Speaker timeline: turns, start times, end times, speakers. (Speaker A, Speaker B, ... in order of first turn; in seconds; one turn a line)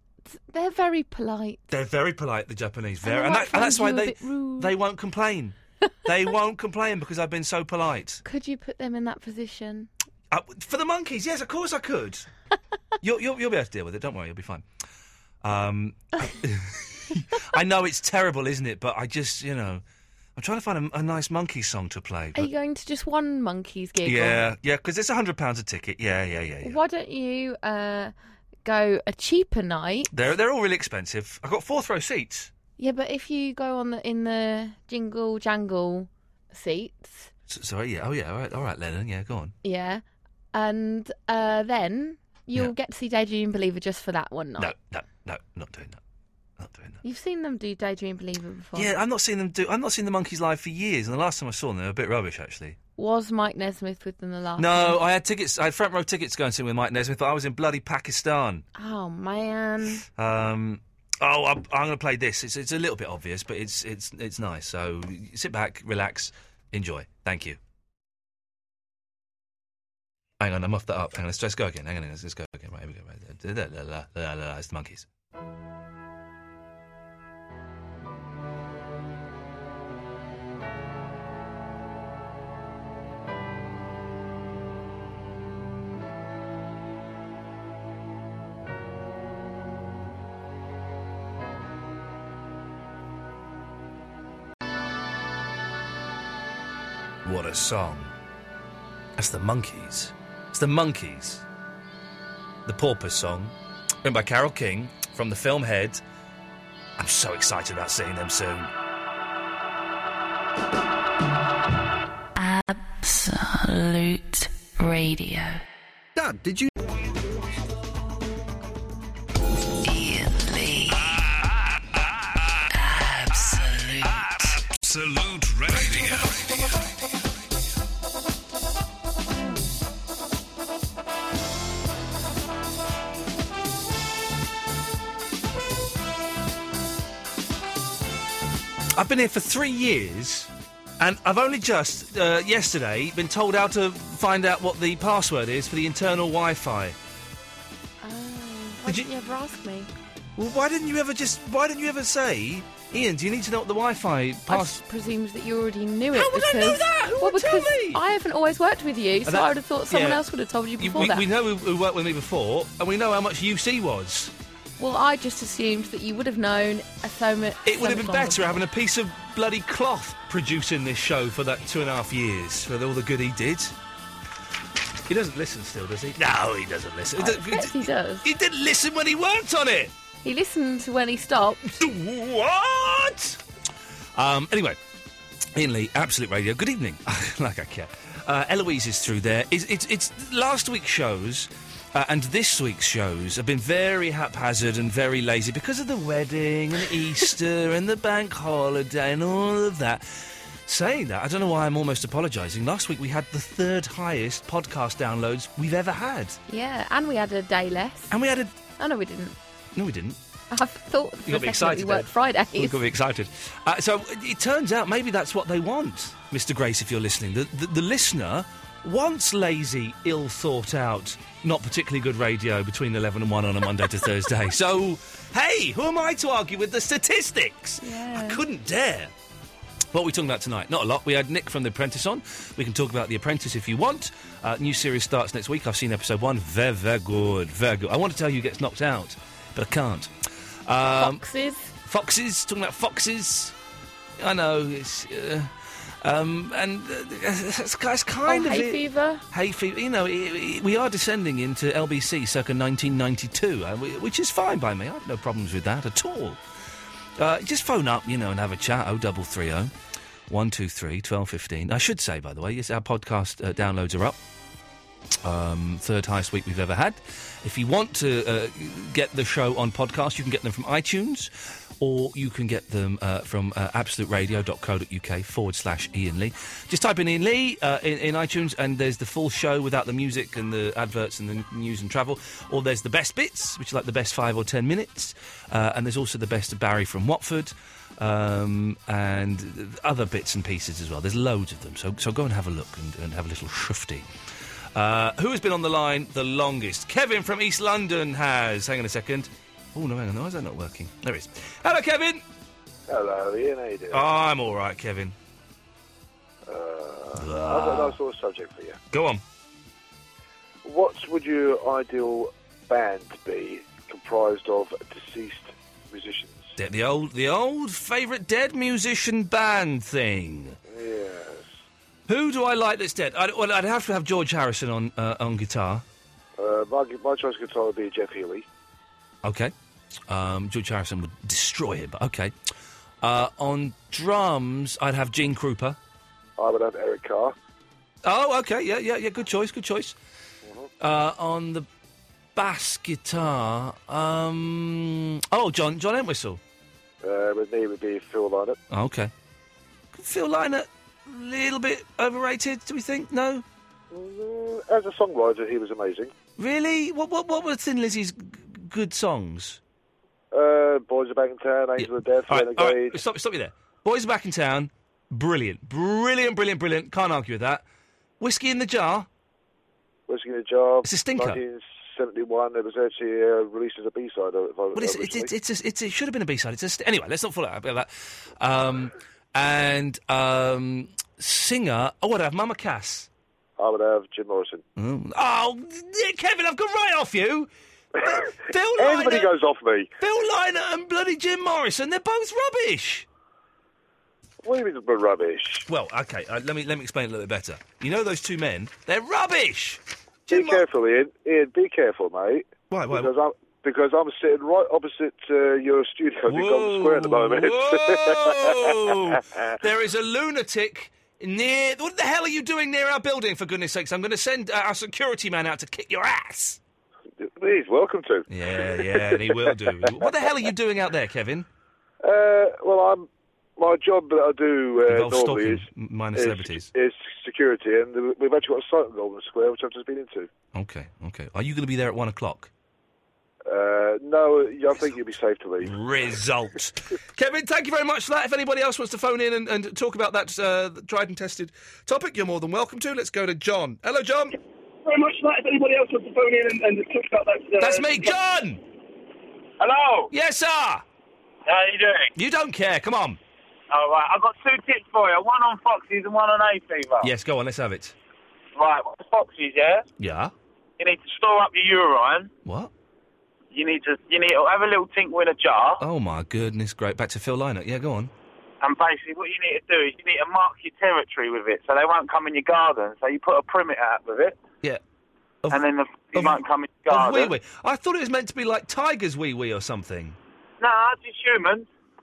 Speaker A: 0.2-1.6
Speaker B: 1.7-8.2
Speaker A: 3.0-4.7
Speaker A: 8.2-9.9
Speaker B: 10.3-12.3
Speaker B: 13.0-14.6
Speaker B: 15.4-19.8
Speaker B: 20.4-22.5
Speaker A: 22.3-24.5
Speaker B: 24.0-26.8
Speaker A: 26.6-28.1
Speaker A: 28.6-30.1
Speaker B: 30.1-32.5
Speaker A: 32.8-37.3
Speaker B: 37.5-39.5
Speaker A: 39.6-44.7
Speaker B: 44.6-46.0
Speaker B: 46.6-47.0
Speaker A: 47.0-48.9
Speaker B: 48.7-52.8
Speaker A: 53.0-55.0
Speaker B: 54.6-58.6
Speaker A: 58.7-60.0
Speaker B: 60.1-67.6
Speaker B: 70.4-75.1
Speaker B: 97.2-98.1
Speaker B: 99.2-101.4
Speaker B: 102.7-106.0
Speaker B: 107.0-108.7
Speaker C: 112.3-115.6
Speaker B: 116.2-116.7
Speaker C: 119.8-121.2
Speaker C: 122.7-124.5
Speaker D: 124.8-127.0
Speaker B: 138.9-146.9
Speaker A: 148.0-149.9
Speaker B: 150.3-154.8
Speaker A: 154.5-161.2
Speaker B: 156.1-158.0
Speaker B: 159.2-160.2
Speaker B: 160.8-164.3
Speaker A: 164.8-168.6
Speaker B: 167.6-173.7
Speaker B: 175.1-179.9
Speaker A: 177.2-178.3
Speaker A: 180.2-181.8
Speaker B: 181.8-183.4
Speaker B: 184.1-184.8
Speaker B: 185.5-206.4
Speaker A: 206.5-208.2
Speaker B: 208.1-208.5
Speaker A: 208.8-209.4
Speaker B: 209.7-210.2
Speaker A: 210.5-212.8
Speaker B: 211.2-229.1
Speaker A: 227.8-228.4
Speaker B: 229.9-240.1
Speaker B: 240.7-241.2
Speaker A: 240.9-241.7
Speaker B: 241.8-243.5
Speaker B: 244.2-256.4
Speaker A: 248.2-249.2
Speaker B: 257.2-259.7
Speaker B: 260.3-264.2
Speaker B: 265.2-294.1
Speaker B: 294.7-302.2
Speaker E: 302.9-304.1
Speaker B: 303.9-305.1
Speaker E: 306.4-308.8
Speaker B: 307.1-308.0
Speaker B: 308.9-309.2
Speaker E: 310.6-316.6
Speaker B: 316.6-320.6
Speaker E: 320.6-321.6
Speaker B: 322.1-325.8
Speaker E: 326.4-328.4
Speaker B: 329.2-329.5
Speaker B: 330.1-332.3
Speaker B: 333.0-335.8
Speaker E: 336.4-337.3
Speaker B: 338.0-340.0
Speaker E: 340.4-340.7
Speaker B: 340.8-341.7
Speaker B: 342.3-346.4
Speaker E: 347.0-348.6
Speaker B: 348.7-349.1
Speaker B: 349.9-353.4
Speaker E: 353.9-356.1
Speaker B: 356.4-359.6
Speaker E: 360.3-363.0
Speaker B: 361.8-367.6
Speaker B: 368.2-369.1
Speaker E: 370.1-375.3
Speaker B: 370.8-371.4
Speaker B: 374.7-383.1
Speaker E: 383.6-384.6
Speaker B: 384.8-389.3
Speaker E: 388.0-389.9
Speaker B: 390.0-393.1
Speaker E: 394.4-395.7
Speaker B: 395.6-400.6
Speaker E: 400.3-409.5
Speaker B: 402.7-403.1
Speaker B: 406.3-416.6
Speaker E: 417.2-420.1
Speaker B: 418.3-421.5
Speaker E: 422.0-430.3
Speaker B: 424.8-426.7
Speaker B: 430.5-432.5
Speaker E: 433.4-435.7
Speaker B: 435.6-444.4
Speaker F: 444.8-448.1
Speaker B: 447.6-448.6
Speaker G: 449.6-450.1
Speaker B: 450.1-450.8
Speaker G: 451.4-452.1
Speaker B: 452.1-453.2
Speaker G: 453.7-457.1
Speaker B: 457.0-457.9
Speaker G: 458.6-459.8
Speaker B: 460.0-460.3
Speaker G: 460.8-462.3
Speaker B: 462.4-462.7
Speaker G: 463.5-465.8
Speaker B: 465.8-468.1
Speaker G: 468.6-474.4
Speaker G: 475.5-477.3
Speaker B: 476.1-480.2
Speaker G: 480.6-481.7